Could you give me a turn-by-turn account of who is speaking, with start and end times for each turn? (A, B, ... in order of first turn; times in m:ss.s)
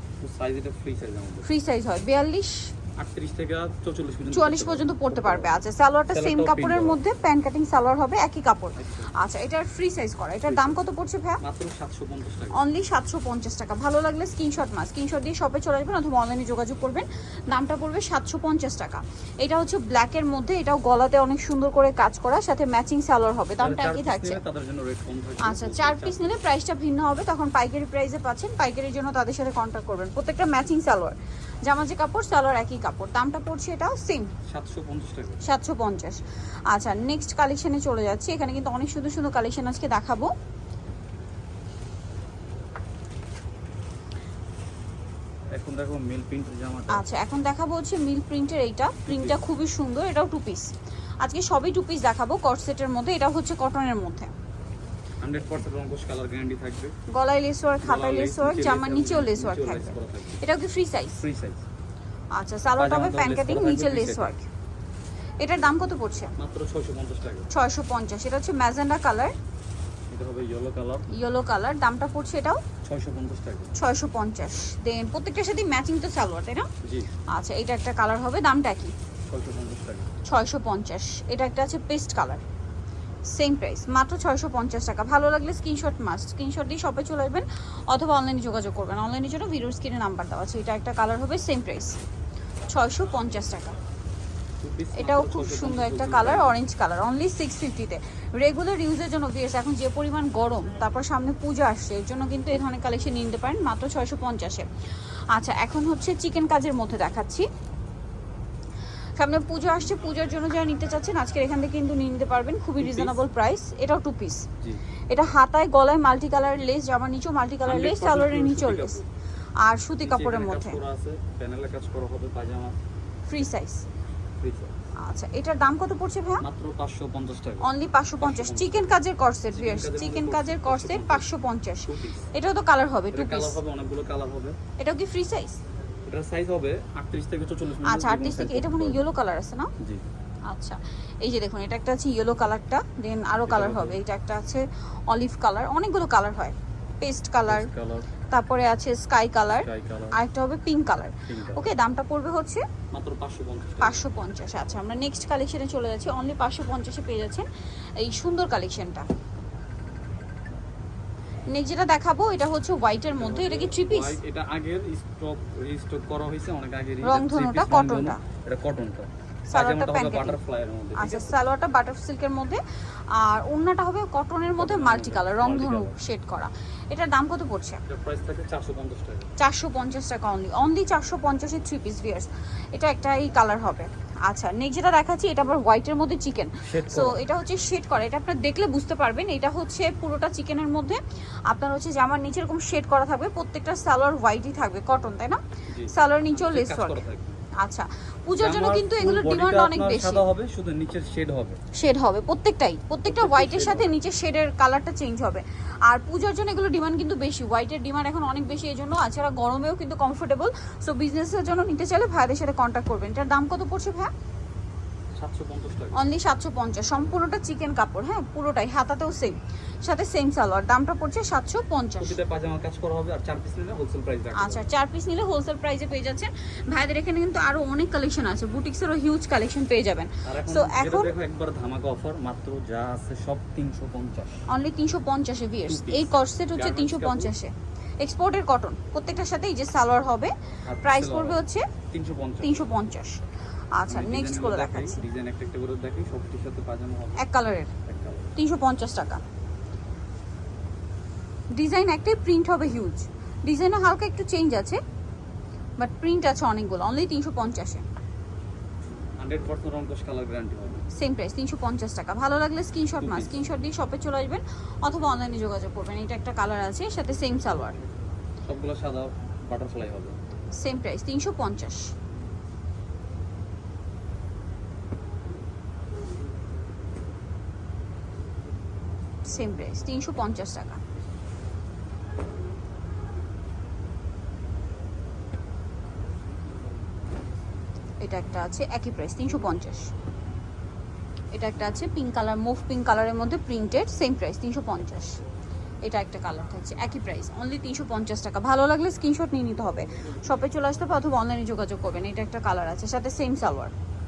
0:00.2-0:01.5 A
0:01.4-0:02.7 B
0:03.0-0:07.0 A
0:04.3-0:11.4 B
0:08.8-0:09.1 A
0:10.5-0:10.8 A
0:11.4-0:12.6 A
0:12.5-0:24.4 B
0:23.6-0:26.2 A
0:25.4-0:34.3 B
0:34.4-0:35.4 A
0:35.4-0:36.2 B
0:36.7-0:40.3 B
0:45.5-0:47.0 A
0:46.9-0:54.3 B
0:49.0-0:49.4 A
0:55.2-0:56.9 A
0:57.1-1:01.2 B
0:57.8-1:00.4 A
1:01.2-1:01.6 A
1:02.3-1:04.5 B
1:02.8-1:04.3 A
1:05.4-1:06.3 B
1:06.4-1:07.5 A
1:07.5-1:09.3 B
1:10.1-1:11.1 A
1:11.1-1:12.6 B
1:12.8-1:13.7 A
1:13.7-1:16.7 B
1:16.8-1:17.1 A
1:17.3-1:18.9 B
1:19.3-1:20.1 A
1:20.2-1:22.4 B
1:23.3-1:32.0 B
1:32.7-1:33.8 B
1:34.6-1:36.6 A
1:34.9-1:44.6 B
1:45.3-1:47.4 B
1:49.2-1:54.5 B
1:52.8-1:53.2 A
1:55.1-1:59.0 B
1:57.6-1:59.1 A
1:59.6-2:00.8 B
2:00.0-2:02.8 A
2:03.3-2:03.8 B
2:04.4-2:04.7 A
2:05.0-2:06.4 B
2:06.4-2:07.7 A
2:07.6-2:13.6 B
2:08.2-2:09.0 A
2:09.5-2:11.3 A
2:11.9-2:12.3 A
2:13.1-2:14.6 A
2:14.8-2:15.6 B
2:16.0-2:19.0 A
2:17.8-2:19.7 B
2:20.5-2:27.7 B
2:23.4-2:24.0 A
2:27.4-2:28.1 A
2:28.3-2:32.6 B
2:29.5-2:30.2 A
2:31.3-2:31.6 A
2:32.9-2:34.0 A
2:33.8-2:37.4 B
2:38.0-2:39.1 B
2:41.5-2:44.2 B
2:43.2-2:51.4 A
2:47.0-2:48.2 B
2:49.5-2:50.4 B
2:51.0-2:57.8 B
2:54.6-2:56.0 A
2:57.9-2:59.3 A
2:59.4-3:17.0 B
3:06.6-3:07.2 A
3:15.7-3:17.4 A
3:17.6-3:20.2 B
3:18.4-3:21.6 A
3:21.7-3:34.1 B
3:23.0-3:23.9 A
3:35.2-3:36.0 A
3:35.9-3:42.2 B
3:42.0-3:44.6 A
3:44.3-3:51.1 B
3:50.2-3:54.5 A
3:54.5-4:01.7 B
3:55.7-3:57.3 A
4:00.7-4:02.7 A
4:02.4-4:03.2 B
4:03.8-4:05.0 B
4:03.9-4:07.3 A
4:07.2-4:07.7 B
4:07.8-4:08.3 A
4:08.4-4:09.2 B
4:11.5-4:14.8 B
4:15.8-4:17.8 B
4:19.2-4:20.8 A
4:20.9-4:27.8 B
4:23.0-4:23.3 A
4:28.5-4:30.2 A
4:30.6-4:31.9 B
4:39.2-4:40.8 B
4:48.0-4:49.9 B
4:51.3-4:55.2 B
4:55.8-5:03.7 B